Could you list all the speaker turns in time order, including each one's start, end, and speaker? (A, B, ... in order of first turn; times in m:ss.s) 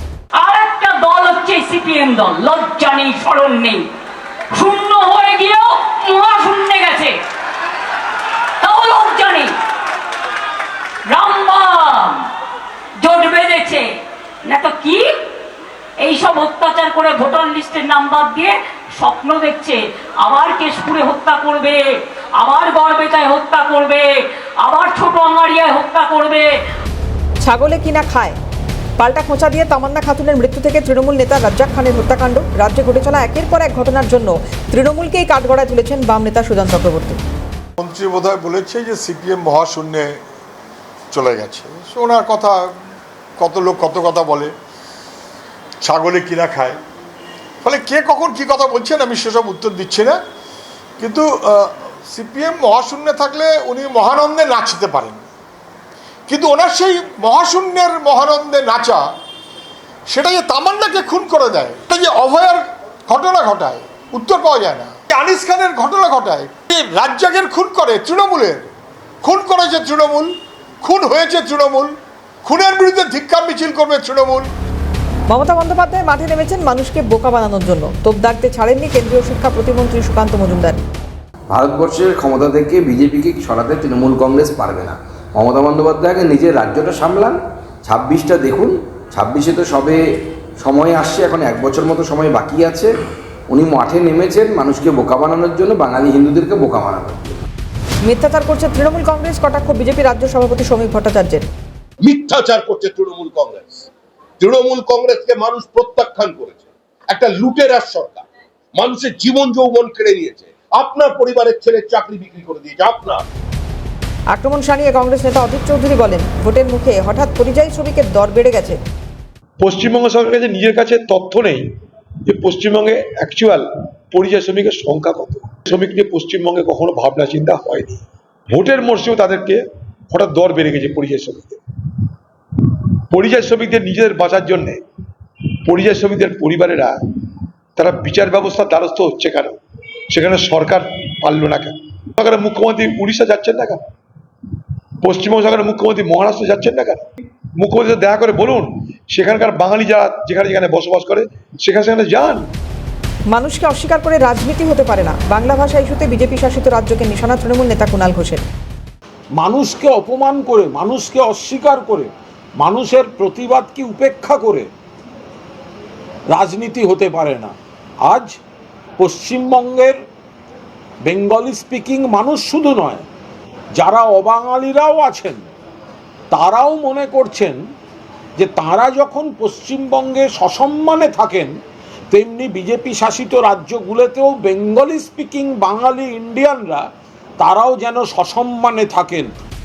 0:00.4-0:03.8 A
0:04.5-0:07.1 A
0:08.6-0:09.5 A
0:11.1-0:12.3 A
0:13.0-0:13.8 A
0:14.4-0:15.1 A
0:16.0-0:21.8 A
0:22.4-0:24.1 A
0:24.6-0:26.5 A
0:27.4-0:28.4 B
0:29.0-0:37.2 B
0:37.8-0:40.2 C
0:41.1-0:42.7 C
0:43.4-0:44.5 C
0:45.8-0:46.8 C
0:47.6-0:50.2 C
0:51.0-0:55.2 C
0:56.3-0:59.0 C
1:00.1-1:08.6 C
1:09.2-1:11.9 C
1:12.4-1:14.5 C
1:15.3-1:20.8 B
1:21.5-1:30.0 D
1:30.6-1:32.9 D
1:33.5-1:37.4 D
1:38.0-1:41.5 B
1:42.0-1:43.9 E
1:44.4-1:53.2 E
1:54.3-1:58.8 B
1:59.6-2:01.6 F
2:02.2-2:11.6 F
2:13.1-2:14.8 F
2:15.6-2:17.0 F
2:17.8-2:19.6 F
2:20.1-2:23.8 F
2:25.0-2:27.0 F
2:27.6-2:32.4 F
2:33.3-2:38.4 B
2:39.4-2:42.1 G
2:42.6-2:44.6 G
2:46.3-2:47.5 G
2:49.0-2:49.9 G
2:51.0-2:53.0 G
2:53.8-2:55.4 G
2:56.3-2:57.6 G
2:58.4-3:01.5 G
3:02.1-3:06.8 G
3:07.4-3:09.2 G